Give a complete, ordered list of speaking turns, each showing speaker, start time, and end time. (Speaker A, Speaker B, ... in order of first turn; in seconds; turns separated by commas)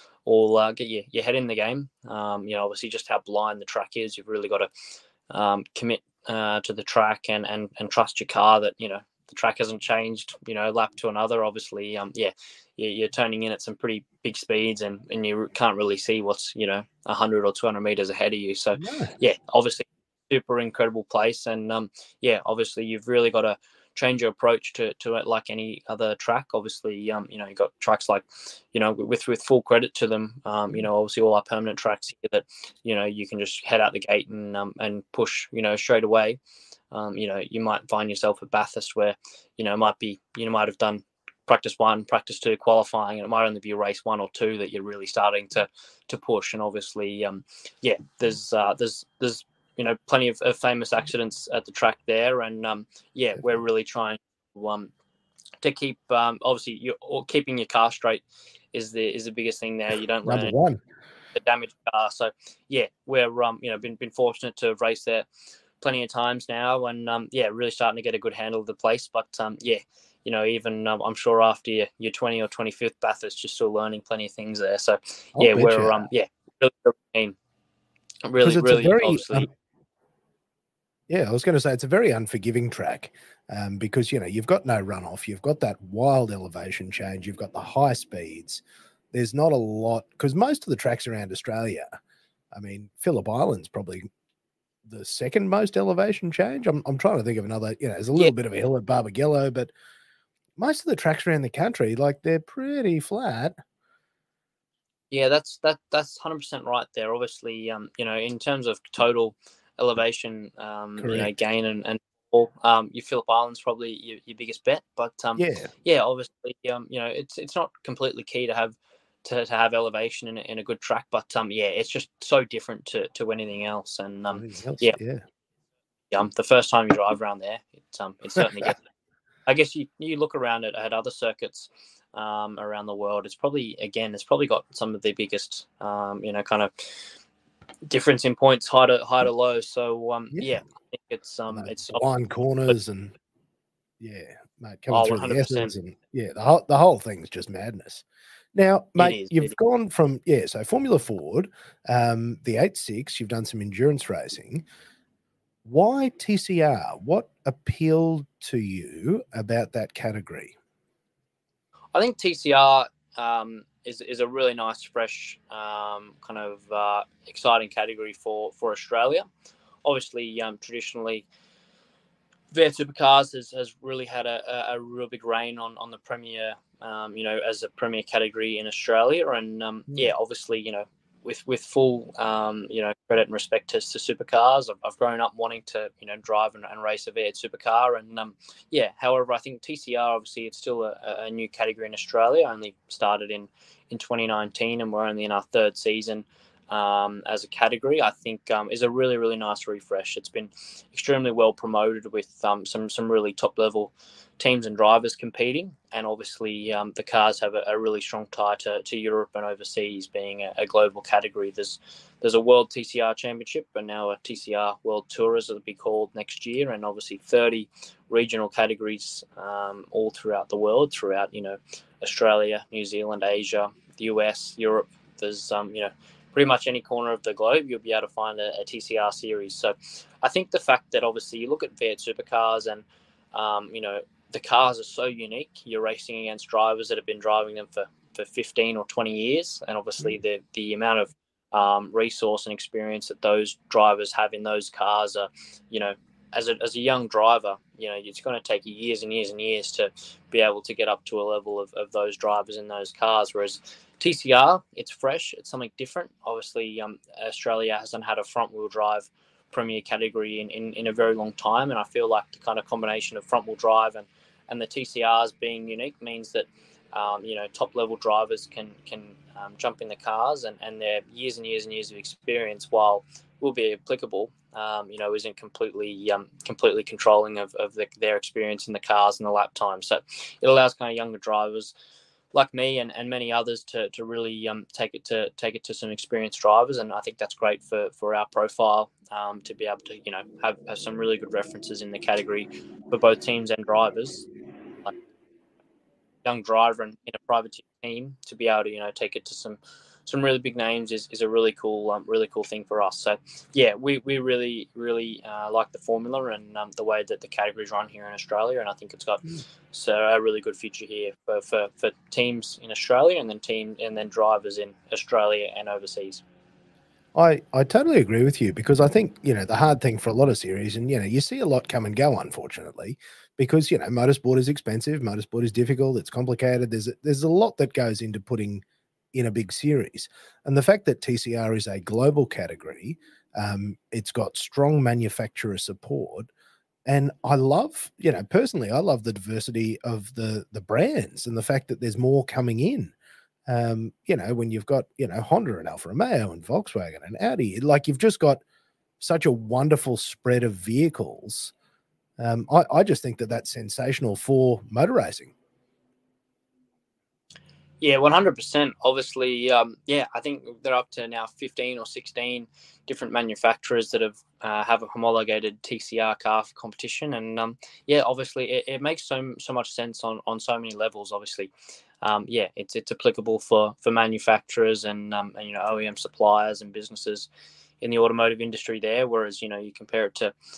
Speaker A: 0.3-4.7, Speaker A: 5.3-36.4, Speaker B: 18.8-19.1, Speaker A: 36.9-54.9, Speaker A: 55.6-60.5, Speaker B: 60.3-60.8, Speaker A: 61.4-65.3, Speaker A: 65.8-77.4, Speaker B: 75.4-76.1, Speaker A: 78.3-79.5, Speaker B: 78.4-79.5, Speaker B: 81.1-92.0, Speaker B: 92.5-94.1, Speaker B: 94.8-99.7, Speaker B: 100.6-103.5, Speaker A: 105.1-125.0, Speaker B: 111.0-111.3, Speaker B: 115.4-115.7, Speaker B: 124.3-125.2, Speaker A: 126.1-128.8, Speaker A: 129.5-136.7, Speaker A: 137.9-142.0, Speaker B: 141.5-143.1, Speaker B: 144.0-154.6, Speaker A: 144.9-145.7, Speaker A: 149.0-149.6, Speaker B: 155.7-160.5, Speaker A: 161.9-169.3, Speaker A: 169.8-171.3, Speaker A: 172.5-281.7, Speaker A: 282.3-294.3, Speaker A: 296.2-316.2, Speaker B: 317.1-336.3, Speaker B: 336.9-342.9, Speaker B: 343.5-348.4, Speaker B: 349.0-351.5, Speaker B: 352.2-355.3, Speaker A: 357.8-371.5, Speaker A: 372.0-377.3, Speaker A: 377.8-380.3